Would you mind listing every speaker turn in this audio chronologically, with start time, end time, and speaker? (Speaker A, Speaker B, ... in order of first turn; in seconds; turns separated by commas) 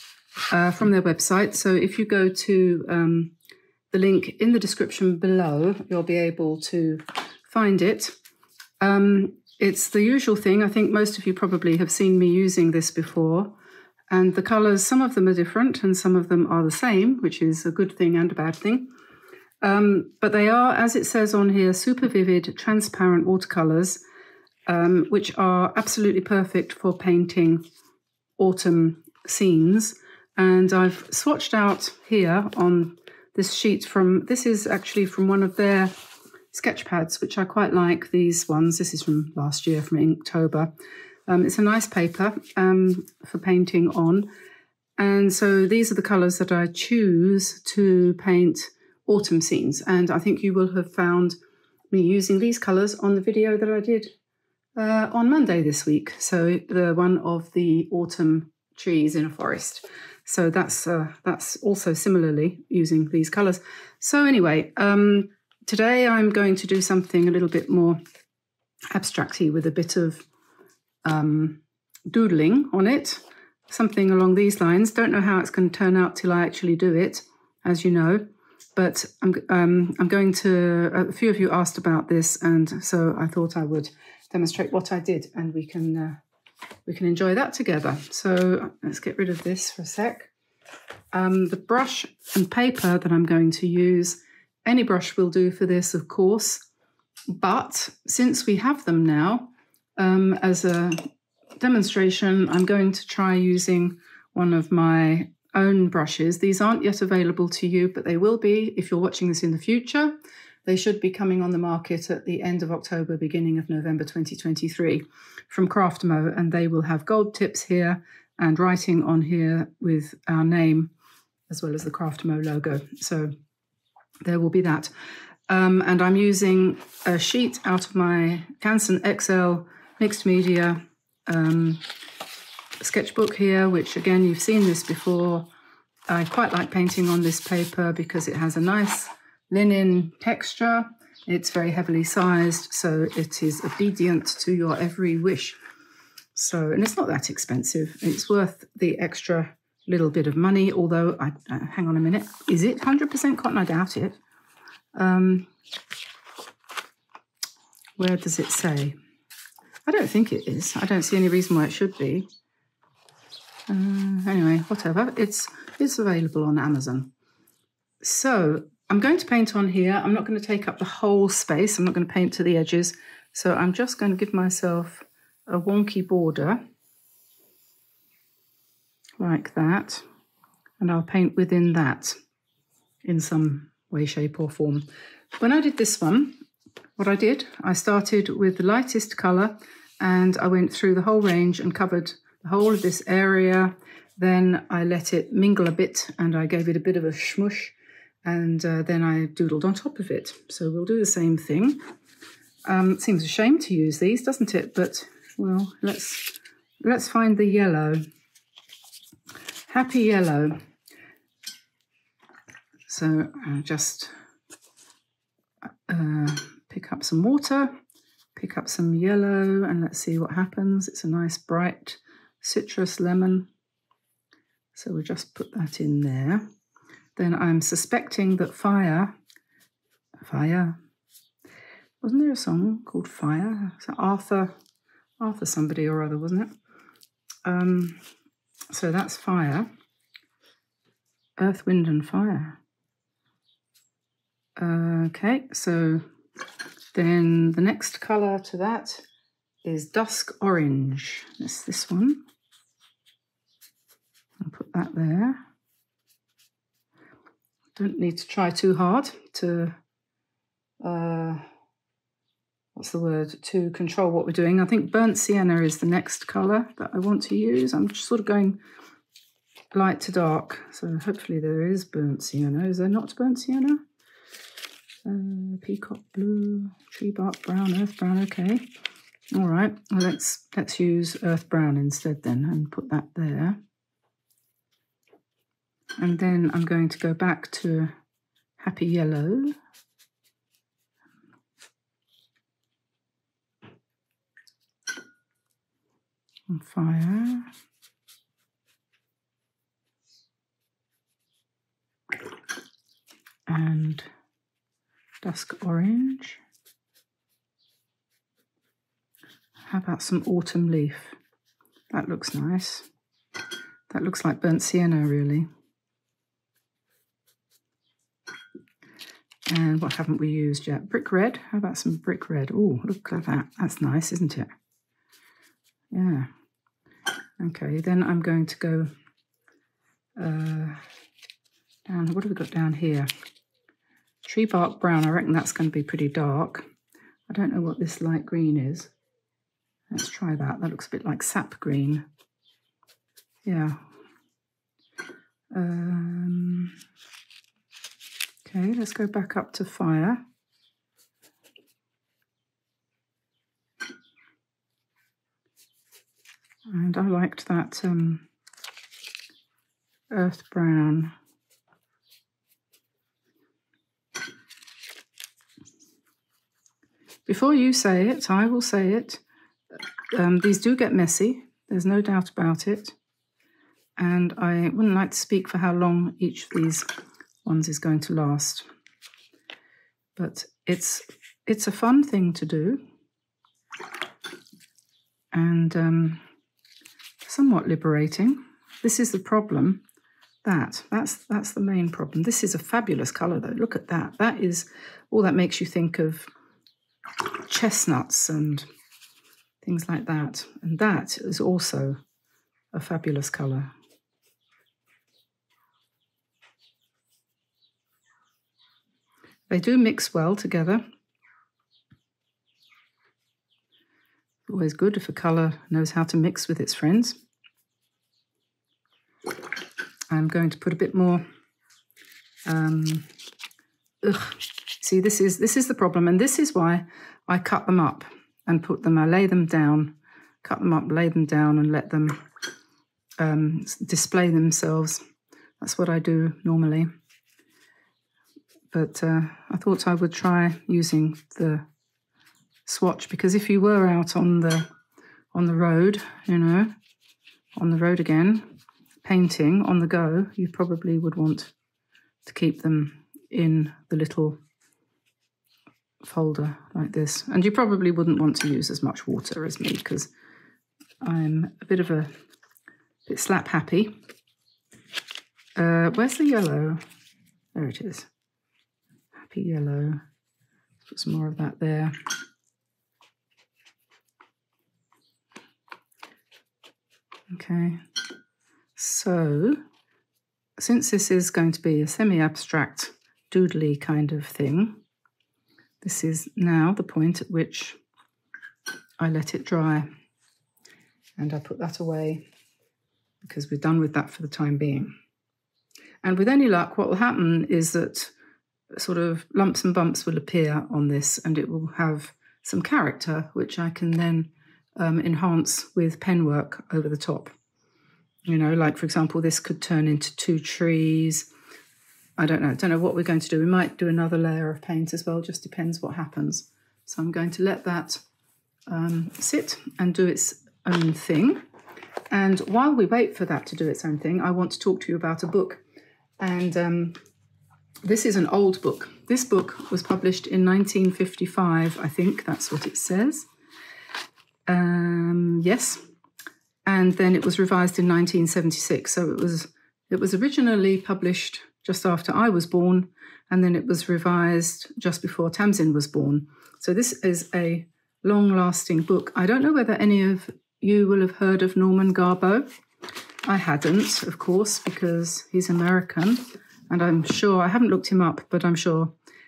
Speaker A: 0.5-3.3, Speaker A: 3.9-8.2, Speaker A: 8.8-13.5, Speaker A: 14.1-18.9, Speaker A: 19.6-24.0, Speaker A: 24.7-27.6, Speaker A: 28.4-35.9, Speaker A: 36.5-40.7, Speaker A: 41.3-44.3, Speaker A: 45.0-51.4, Speaker A: 51.9-54.1, Speaker A: 54.8-68.0, Speaker A: 68.9-70.2, Speaker A: 71.0-78.2, Speaker A: 78.8-86.2, Speaker A: 86.9-90.3, Speaker A: 91.1-96.6, Speaker A: 97.3-101.0, Speaker A: 101.6-120.9, Speaker A: 121.5-123.3, Speaker A: 124.2-124.9, Speaker A: 125.5-131.8, Speaker A: 132.8-135.5, Speaker A: 136.1-145.6, Speaker A: 146.3-154.2, Speaker A: 154.9-155.5, Speaker A: 158.0-159.0, Speaker A: 159.8-162.3, Speaker A: 163.7-167.1, Speaker A: 168.0-176.6, Speaker A: 179.2-180.0, Speaker A: 180.8-182.2, Speaker A: 183.0-186.4, Speaker A: 187.0-201.8, Speaker A: 202.7-208.0, Speaker A: 209.7-210.6, Speaker A: 212.9-214.1, Speaker A: 215.9-217.7, Speaker A: 218.3-223.5, Speaker A: 224.8-226.4, Speaker A: 227.2-229.2, Speaker A: 230.2-230.8, Speaker A: 232.0-234.5, Speaker A: 235.2-236.5, Speaker A: 237.4-238.0, Speaker A: 238.7-239.7, Speaker A: 241.4-242.6, Speaker A: 244.6-246.0, Speaker A: 246.9-249.0, Speaker A: 249.6-252.2, Speaker A: 254.4-255.4, Speaker A: 257.8-259.8, Speaker A: 260.8-261.4, Speaker A: 262.8-268.6, Speaker A: 269.7-273.8, Speaker A: 275.0-278.6, Speaker A: 279.3-283.6, Speaker A: 286.0-287.9, Speaker A: 288.6-289.6, Speaker A: 296.5-297.5, Speaker A: 303.5-304.1, Speaker A: 305.2-306.4, Speaker A: 309.6-311.2, Speaker A: 311.9-312.9, Speaker A: 313.9-315.5, Speaker A: 319.5-324.5, Speaker A: 325.9-326.3, Speaker A: 327.4-328.9, Speaker A: 330.2-330.8, Speaker A: 331.9-333.1, Speaker A: 334.2-336.7, Speaker A: 337.3-338.9, Speaker A: 339.9-342.1, Speaker A: 343.4-343.8, Speaker A: 345.5-346.8, Speaker A: 348.4-350.2, Speaker A: 356.7-358.3, Speaker A: 360.1-361.1, Speaker A: 367.3-369.2, Speaker A: 370.1-372.9, Speaker A: 374.0-376.9, Speaker A: 377.4-378.7, Speaker A: 380.2-382.8, Speaker A: 385.3-386.2, Speaker A: 387.2-389.8, Speaker A: 390.4-396.3, Speaker A: 397.4-398.7, Speaker A: 399.6-402.0, Speaker A: 402.7-403.7, Speaker A: 409.5-410.8, Speaker A: 414.5-417.2, Speaker A: 420.1-421.2, Speaker A: 422.5-423.1, Speaker A: 424.0-432.2, Speaker A: 433.2-435.0, Speaker A: 435.6-436.9, Speaker A: 438.7-441.6, Speaker A: 442.7-444.7, Speaker A: 445.3-446.7, Speaker A: 447.6-448.5, Speaker A: 449.0-451.5, Speaker A: 452.3-454.4, Speaker A: 456.0-460.1, Speaker A: 461.0-462.1, Speaker A: 463.1-463.9, Speaker A: 465.6-466.8, Speaker A: 467.6-468.1, Speaker A: 469.2-470.0, Speaker A: 470.9-472.0, Speaker A: 477.3-477.8, Speaker A: 478.8-479.6, Speaker A: 480.6-484.8, Speaker A: 485.8-487.8, Speaker A: 489.0-489.9, Speaker A: 491.2-492.3, Speaker A: 493.2-494.9, Speaker A: 496.0-498.1, Speaker A: 498.7-507.3, Speaker A: 508.3-511.3, Speaker A: 512.2-518.0, Speaker A: 518.7-521.4, Speaker A: 522.1-525.6, Speaker A: 526.2-527.0, Speaker A: 527.8-533.3, Speaker A: 534.5-535.8, Speaker A: 536.7-552.5, Speaker A: 553.3-559.0